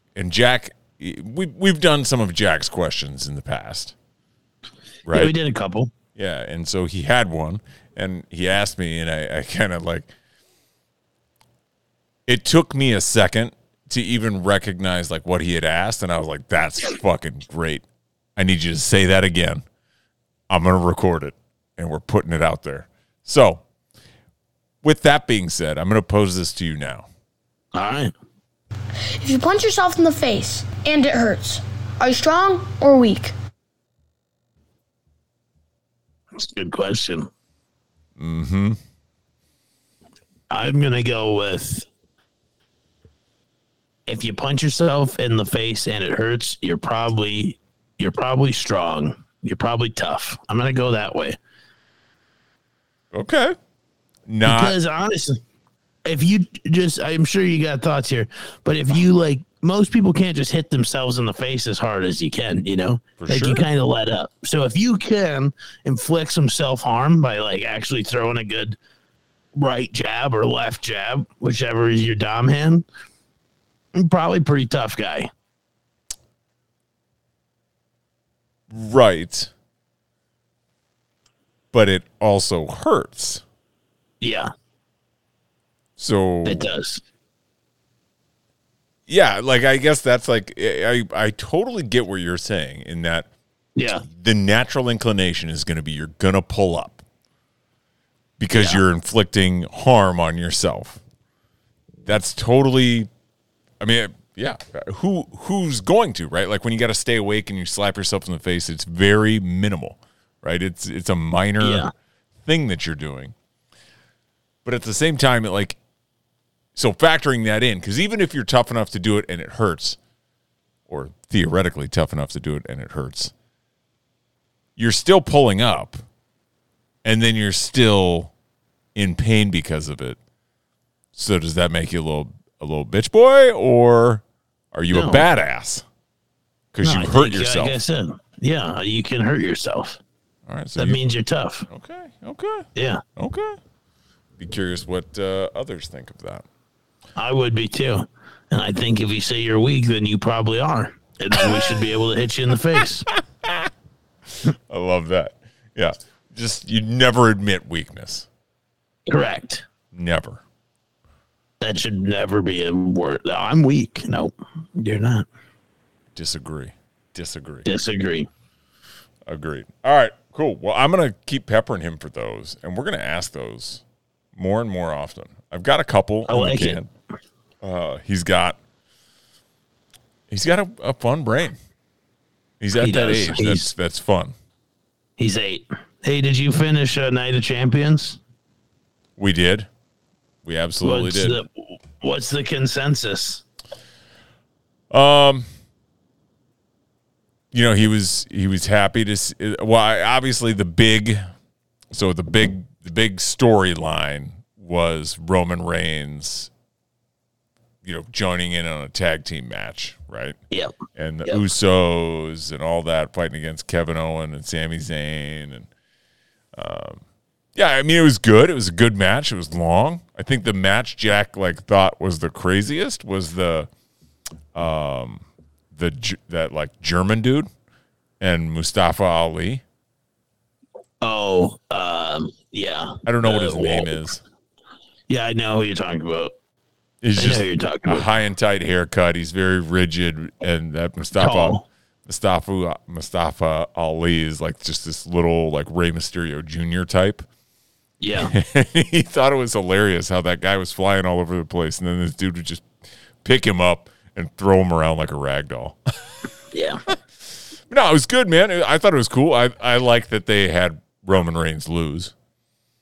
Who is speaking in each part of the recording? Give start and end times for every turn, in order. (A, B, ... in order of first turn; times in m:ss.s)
0:00.1-0:03.9 A
0:05.0-0:05.3 A
0:05.1-0:05.9 B
0:06.1-0:10.1 A
0:12.3-0:17.8 A
0:18.4-0:19.6 A
0:20.5-0:23.6 A
0:24.8-0:27.1 A
0:27.7-0:28.1 B
0:29.2-0:33.3 C
0:36.3-0:37.3 B
0:38.2-0:38.8 A
0:40.5-0:41.9 B
0:44.1-0:51.4 B
0:53.1-0:53.6 A
0:54.3-0:54.8 A
0:54.4-0:55.4 B
0:56.0-1:08.8 B
1:03.2-1:03.6 A
1:09.5-1:12.8 B
1:13.9-1:15.3 B
1:18.7-1:19.5 A
1:21.7-1:23.4 A
1:24.2-1:24.5 B
1:26.0-1:26.7 A
1:26.4-1:27.0 B
1:29.1-1:33.3 A
1:33.8-1:34.0 B
1:34.0-1:37.0 A
1:38.4-1:41.0 A
1:38.5-1:38.8 B
1:42.0-1:43.1 A
1:43.8-1:51.9 A
1:51.6-1:51.9 B
1:52.4-1:53.3 A
1:54.6-1:55.8 A
1:56.7-2:00.0 A
2:00.9-2:03.3 A
2:04.8-2:06.0 A
2:07.0-2:08.3 A
2:08.9-2:10.2 A
2:11.1-2:15.8 A
2:14.9-2:15.2 B
2:16.7-2:17.8 A
2:16.8-2:20.0 B
2:20.5-2:21.0 A
2:20.8-2:21.6 B
2:21.7-2:23.6 A
2:22.7-2:23.0 B
2:24.4-2:26.4 A
2:27.2-2:33.1 B
2:31.4-2:31.8 A
2:32.8-2:33.7 A
2:34.3-2:38.3 A
2:39.1-2:39.6 B
2:39.9-2:40.4 A
2:41.6-2:45.2 B
2:46.1-2:47.7 A
2:47.6-2:48.3 B
2:49.3-2:53.8 A
2:54.3-2:56.9 A
2:56.3-2:56.8 B
2:57.6-2:58.6 A
3:00.3-3:01.6 A
3:02.6-3:04.3 A
3:02.8-3:03.7 B
3:05.2-3:08.2 B
3:09.2-3:09.7 A
3:10.4-3:11.4 A
3:10.8-3:13.4 B
3:14.9-3:15.5 A
3:17.5-3:21.2 A
3:21.9-3:26.5 A
3:27.8-3:30.4 A
3:30.9-3:35.7 A
3:36.5-3:37.0 A
3:37.5-3:43.7 A
3:44.5-3:47.5 A
3:48.2-3:49.6 A
3:51.0-3:53.9 B
3:53.0-3:54.2 A
3:55.1-3:56.3 B
3:57.0-4:07.2 A
3:57.2-3:58.0 B
4:01.2-4:01.6 B
4:08.0-4:08.3 B
4:08.2-4:12.7 A
4:13.2-4:15.8 A
4:16.5-4:16.8 B
4:17.7-4:22.1 A